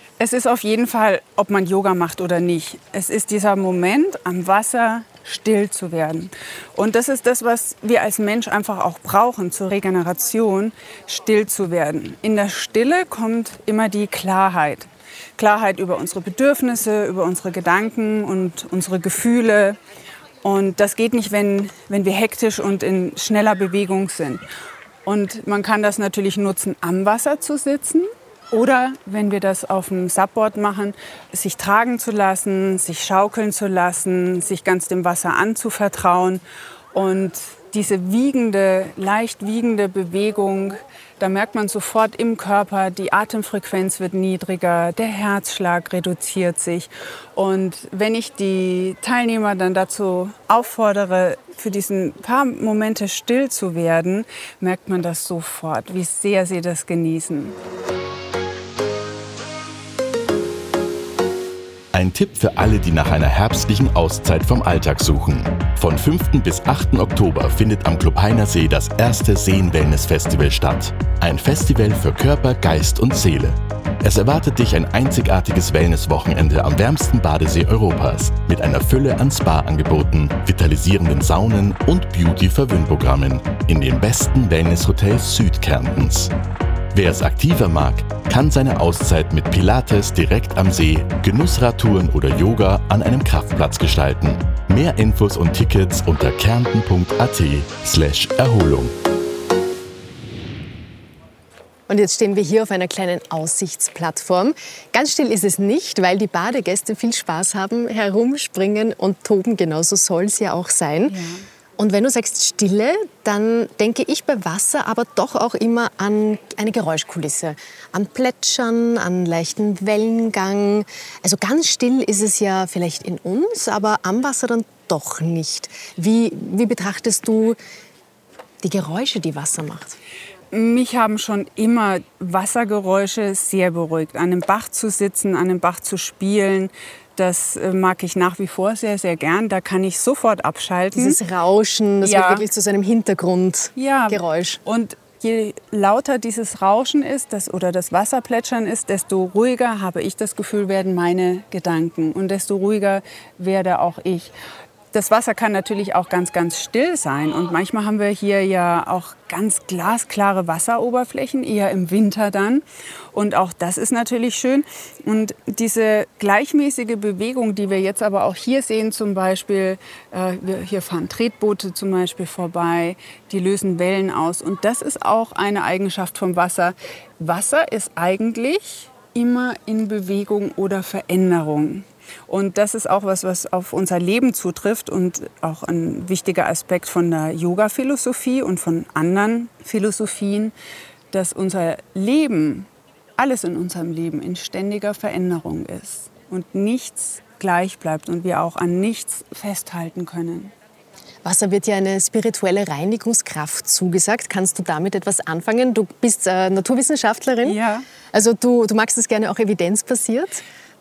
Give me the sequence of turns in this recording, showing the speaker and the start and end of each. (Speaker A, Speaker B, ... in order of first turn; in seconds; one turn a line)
Speaker A: 0.2-19.8
Speaker A: 20.4-24.4
Speaker A: 25.0-36.4
Speaker A: 36.9-57.6
Speaker B: 61.9-86.3
Speaker B: 86.9-98.9
Speaker C: 101.9-111.2
Speaker A: 111.1-111.4
Speaker C: 111.8-127.6
Speaker C: 128.6-130.0
Speaker A: 130.5-141.2
Speaker C: 140.9-144.6
Speaker A: 142.0-142.5
Speaker A: 143.8-154.3
Speaker A: 154.9-190.5
Speaker A: 191.1-200.5
Speaker C: 201.2-207.6
Speaker A: 207.4-207.8
Speaker C: 208.1-210.4